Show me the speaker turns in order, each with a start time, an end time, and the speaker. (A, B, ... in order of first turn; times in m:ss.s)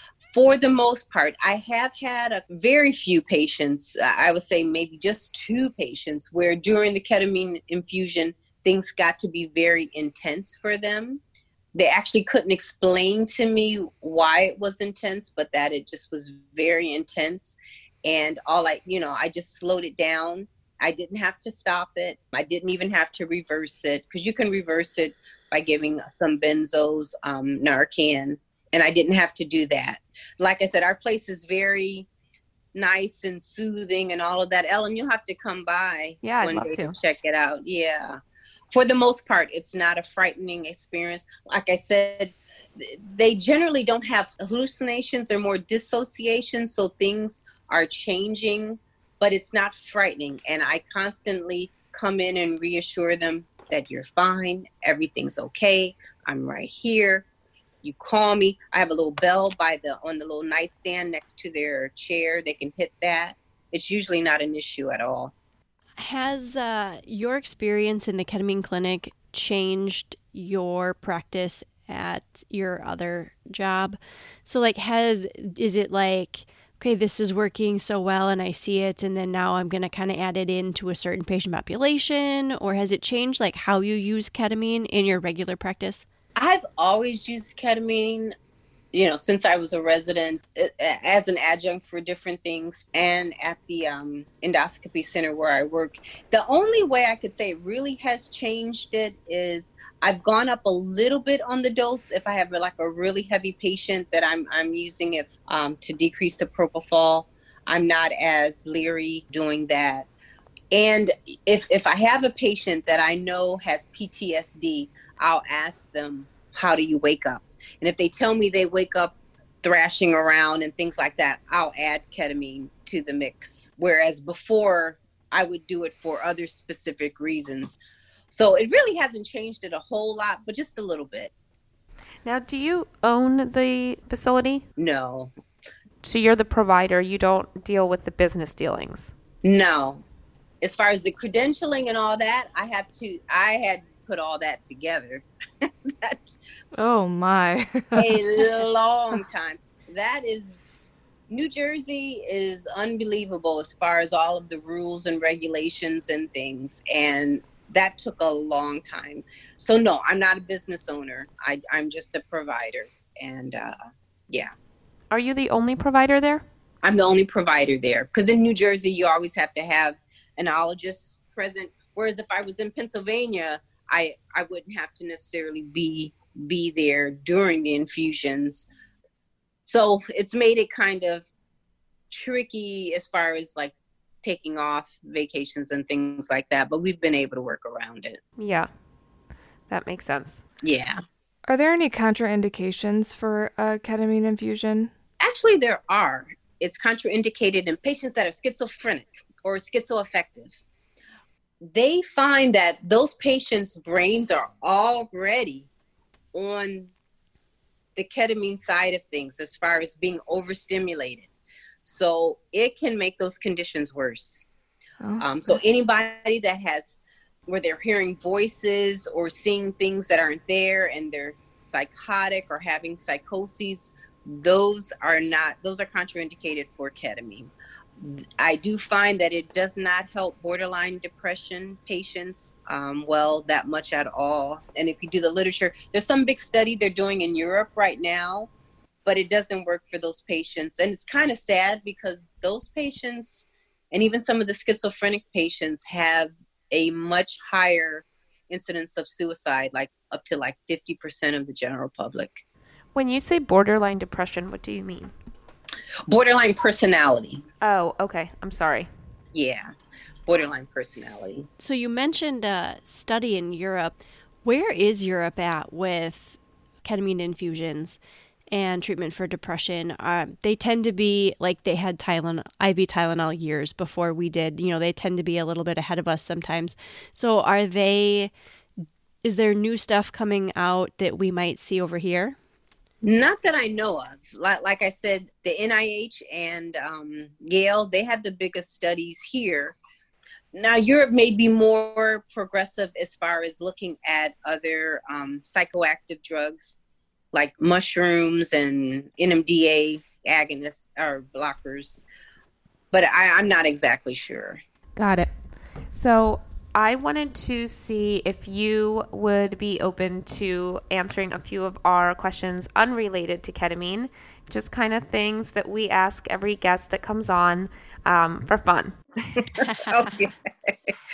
0:00.3-0:11.2 A
0:11.7-0:32.1 A
0:32.7-0:38.2 A
0:36.2-0:37.0 B
0:38.7-0:57.3 A
0:57.8-1:05.3 A
1:06.0-1:26.1 C
1:26.4-1:28.4 A
1:28.9-1:50.1 A
1:50.7-2:07.8 A
2:08.3-2:11.3 A
2:12.2-2:14.6 B
2:14.8-2:15.3 A
2:16.0-2:19.1 B
2:19.4-2:20.0 A
2:20.6-2:26.2 A
2:26.8-2:28.2 D
2:28.0-2:30.6 A
2:31.3-2:43.8 A
2:45.1-2:46.4 B
2:46.8-2:58.7 A
2:59.7-3:01.3 A
3:02.1-3:08.2 A
3:08.4-3:08.7 B
3:09.7-3:10.5 B
3:10.6-3:11.0 A
3:11.5-3:14.9 D
3:15.2-3:20.6 A
3:21.6-3:25.7 A
3:26.3-3:26.9 A
3:28.0-3:31.3 A
3:31.8-3:34.5 A
3:35.0-3:35.3 D
3:35.2-3:58.5 A
3:59.0-4:12.4 A
4:13.0-4:15.1 B
4:16.1-4:17.4 A
4:17.6-4:18.9 B
4:19.3-4:19.7 A
4:20.3-4:21.5 A
4:21.6-4:23.9 C
4:24.4-4:28.0 C
4:28.5-4:38.3 C
4:39.2-4:42.4 C
4:43.0-4:49.8 A
4:50.5-4:56.8 A
4:57.3-5:02.1 A
5:02.9-5:04.6 A
5:05.0-5:05.3 B
5:05.9-5:19.4 B
5:19.6-5:21.0 A
5:19.6-5:20.1 C